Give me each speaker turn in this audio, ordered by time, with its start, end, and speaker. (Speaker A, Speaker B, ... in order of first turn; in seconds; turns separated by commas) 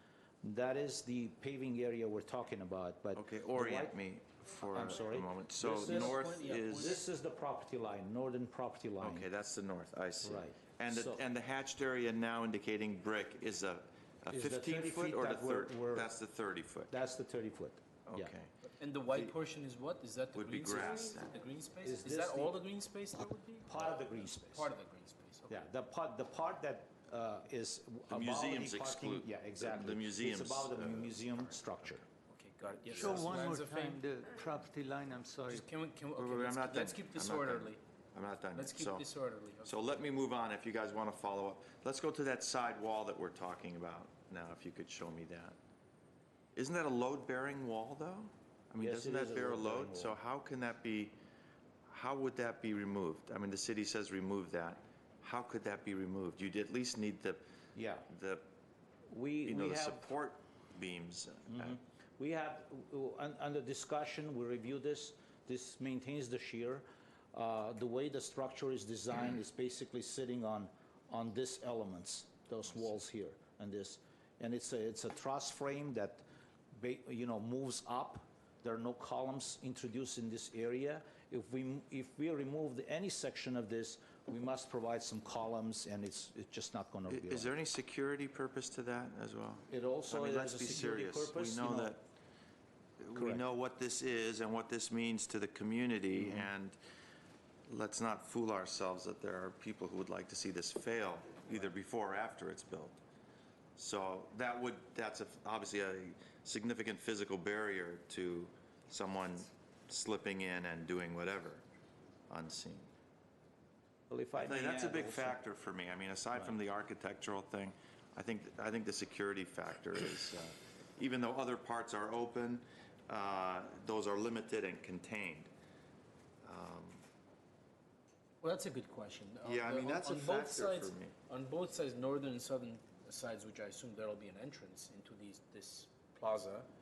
Speaker A: 0.4-4.0, Speaker B: 3.1-7.0, Speaker A: 4.7-9.3, Speaker C: 5.6-7.0, Speaker B: 9.0-16.9, Speaker A: 10.2-11.2, Speaker A: 14.3-16.1, Speaker A: 16.9-18.3, Speaker B: 18.1-18.5, Speaker C: 18.8-25.7, Speaker B: 20.3-21.4, Speaker A: 21.8-22.6, Speaker A: 23.7-24.7, Speaker A: 25.5-32.0, Speaker B: 28.1-31.6, Speaker C: 32.3-34.0, Speaker B: 32.9-33.4, Speaker D: 33.0-35.6, Speaker C: 35.5-37.8, Speaker B: 36.1-39.1, Speaker C: 38.5-40.0, Speaker B: 39.6-45.6, Speaker B: 46.5-51.2, Speaker A: 48.8-50.2, Speaker B: 51.9-57.4, Speaker A: 57.8-58.1, Speaker B: 58.1-58.5, Speaker A: 59.1-60.1, Speaker B: 59.5-61.8, Speaker A: 61.5-87.5, Speaker B: 87.1-92.0, Speaker A: 89.7-92.0, Speaker B: 93.0-96.8, Speaker A: 93.2-93.4, Speaker A: 96.2-96.5, Speaker B: 97.7-103.0, Speaker B: 103.8-111.7, Speaker B: 112.3-112.9, Speaker A: 114.1-115.4, Speaker B: 114.4-125.5, Speaker B: 126.4-127.0, Speaker C: 128.4-136.7, Speaker B: 129.4-131.2